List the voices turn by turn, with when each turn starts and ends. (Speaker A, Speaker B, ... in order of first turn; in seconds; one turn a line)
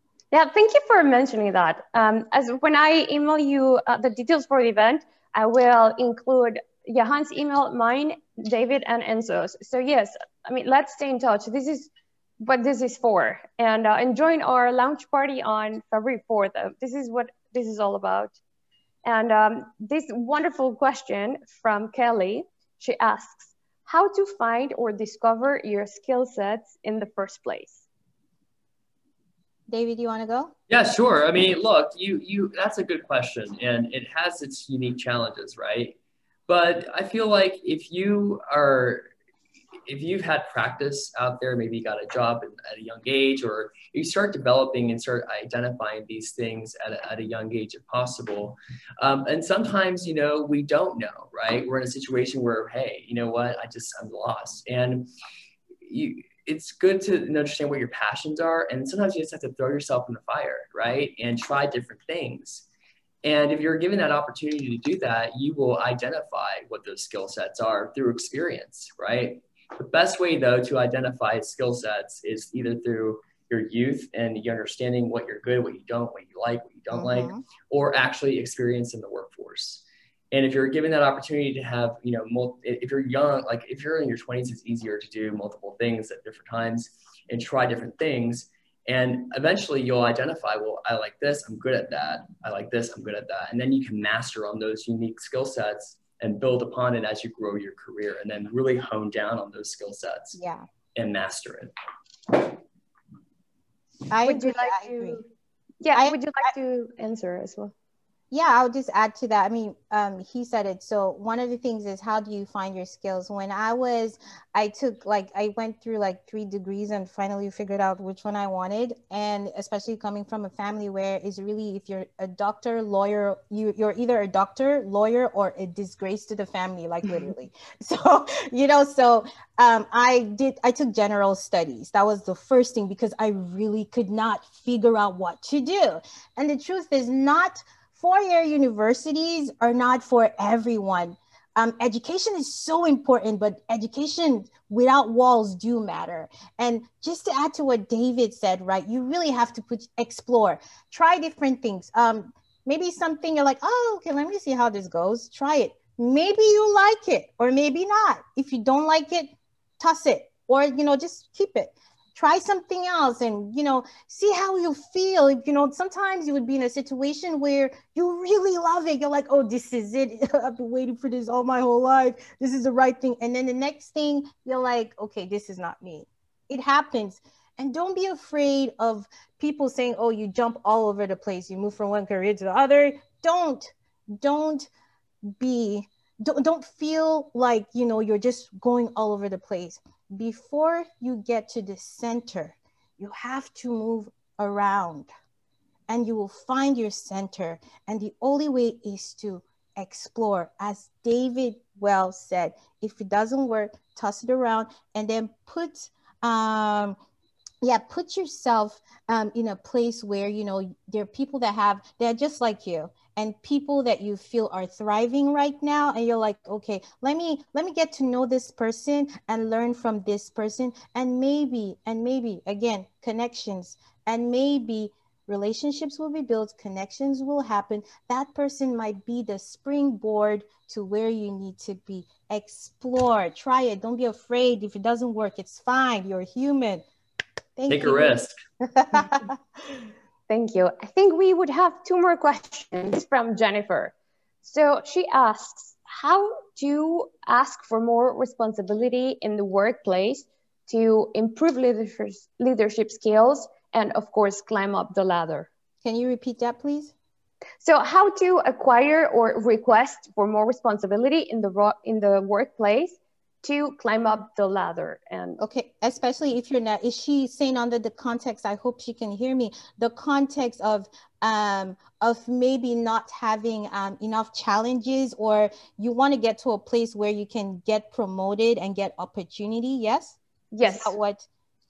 Speaker A: 0.3-18.4
Speaker A: 19.0-27.9
Speaker B: 29.7-30.5
Speaker C: 30.7-36.0
Speaker C: 36.5-39.1
Speaker C: 39.9-55.1
Speaker C: 55.8-62.7
Speaker C: 63.2-100.4
Speaker B: 76.9-77.4
Speaker B: 100.4-100.7
Speaker C: 101.0-101.7
Speaker B: 104.1-105.2
Speaker A: 104.2-105.3
Speaker A: 105.8-107.7
Speaker B: 105.9-106.5
Speaker B: 108.3-184.7
Speaker B: 185.4-195.1
Speaker B: 195.9-207.0
Speaker B: 207.6-236.8
Speaker B: 237.6-239.3
Speaker C: 237.7-238.3
Speaker A: 240.3-255.5
Speaker B: 255.8-256.9
Speaker A: 257.6-265.4
Speaker B: 265.4-281.3
Speaker A: 280.5-281.0